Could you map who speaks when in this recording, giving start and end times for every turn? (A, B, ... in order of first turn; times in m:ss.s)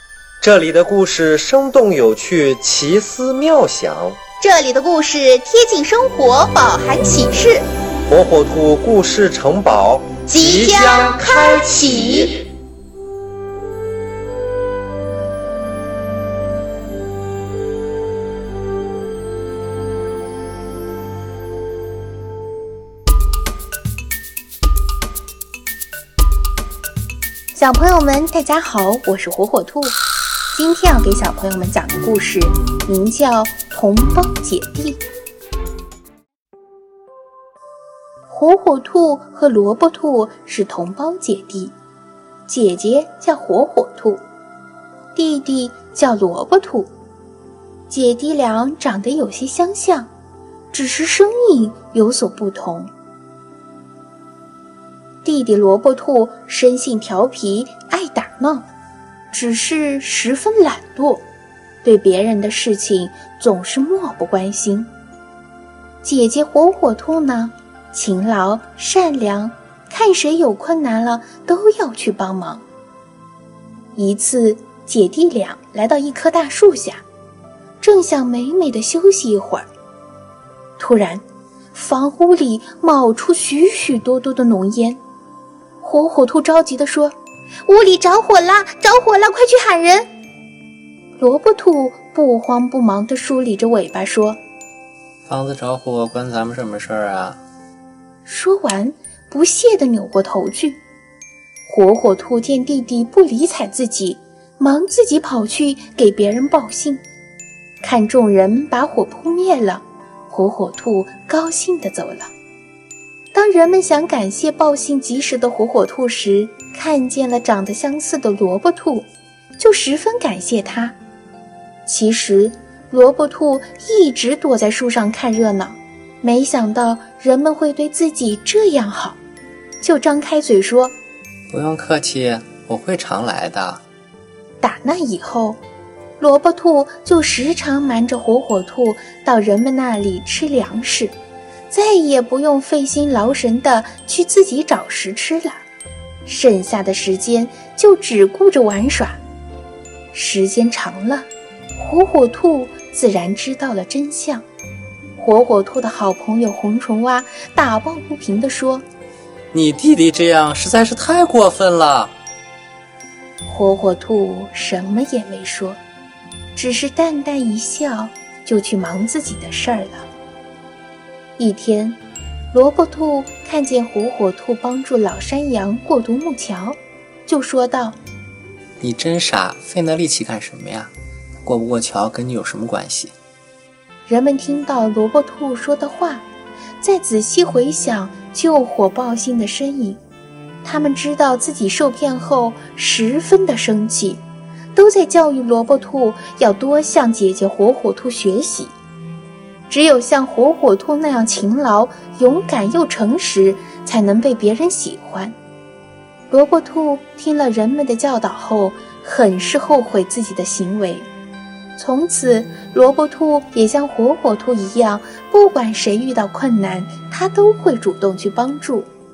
0:00.4-0:04.2 A
0:04.4-0:07.6 B
0:08.1-0:12.3 A
0:10.3-0:12.4 B
0:27.5-0:30.0 B
0:30.5-0:35.0 B
0:38.3-0:41.7 B
0:42.5-0:44.2 B
0:45.1-0:46.9 B
0:47.9-0:50.1 B
0:50.7-0:52.9 B
0:55.2-0:58.7 B
0:59.3-1:01.2 B
1:01.8-1:04.9 B
1:06.0-1:12.6 B
1:13.9-1:17.0 B
1:17.8-1:19.7 B
1:20.8-1:21.2 B
1:21.7-1:25.0 B
1:25.8-1:27.1 B
1:27.6-1:30.1 B
1:31.2-1:34.4 B
1:35.2-1:37.4 C
1:38.2-1:40.8 B
1:41.6-1:47.0 B
1:47.8-1:52.3 B
1:53.3-1:59.1 B
1:59.6-2:01.0 B
2:01.8-2:09.2 B
2:09.8-2:10.9 B
2:11.5-2:13.8 C
2:14.6-2:15.6 B
2:16.2-2:21.1 B
2:21.7-2:25.6 B
2:26.2-2:29.2 B
2:30.1-2:34.4 B
2:35.2-2:38.8 B
2:39.5-2:42.1 C
2:43.4-2:45.8 B
2:46.5-2:50.1 B
2:51.4-2:52.0 B
2:52.5-2:58.0 B
2:58.8-3:00.9 C
3:01.4-3:03.1 C
3:04.1-3:06.2 B
3:06.8-3:10.0 B
3:10.6-3:14.2 B
3:14.7-3:18.7 B
3:19.7-3:25.4 B
3:26.3-3:31.1 B
3:31.8-3:38.9 B